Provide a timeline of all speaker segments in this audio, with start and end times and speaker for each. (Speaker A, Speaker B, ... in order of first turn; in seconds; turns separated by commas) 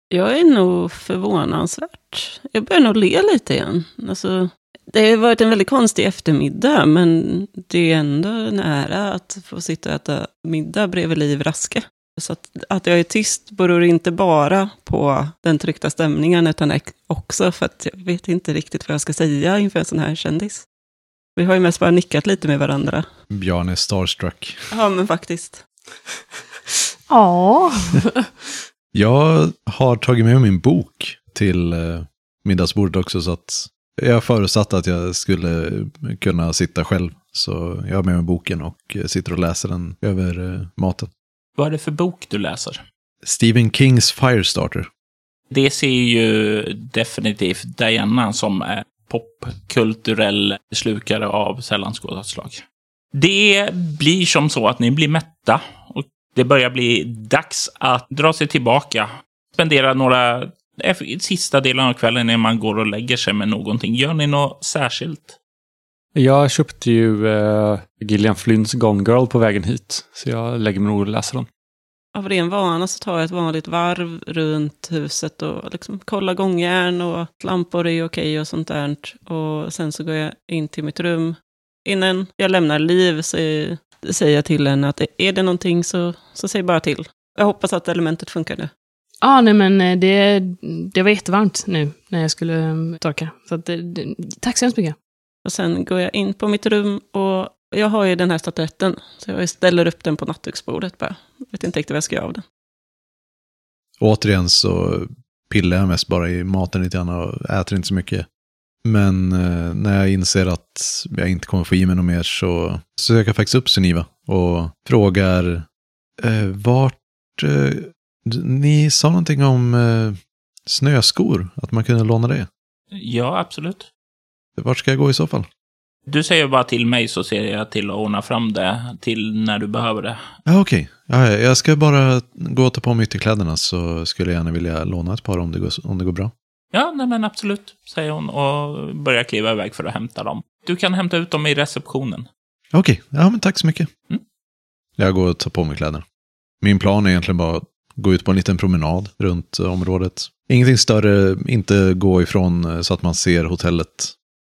Speaker A: 0.1-20.6, Speaker A: 21.4-23.1, Speaker B: 23.3-24.6, Speaker A: 24.7-25.6, Speaker C: 27.1-28.2, Speaker B: 28.9-41.1, Speaker D: 41.6-42.8, Speaker B: 43.2-44.9, Speaker D: 45.5-52.6, Speaker D: 53.1-65.4, Speaker E: 66.1-71.5, Speaker A: 72.1-88.7, Speaker C: 89.2-95.0, Speaker A: 95.4-102.4, Speaker B: 104.0-108.2, Speaker B: 108.8-115.7, Speaker B: 116.2-122.5, Speaker D: 122.9-123.9, Speaker B: 124.6-125.5, Speaker D: 126.1-130.2, Speaker B: 130.4-136.3, Speaker D: 136.7-142.3, Speaker B: 142.7-143.9, Speaker B: 145.0-146.0, Speaker B: 146.6-154.1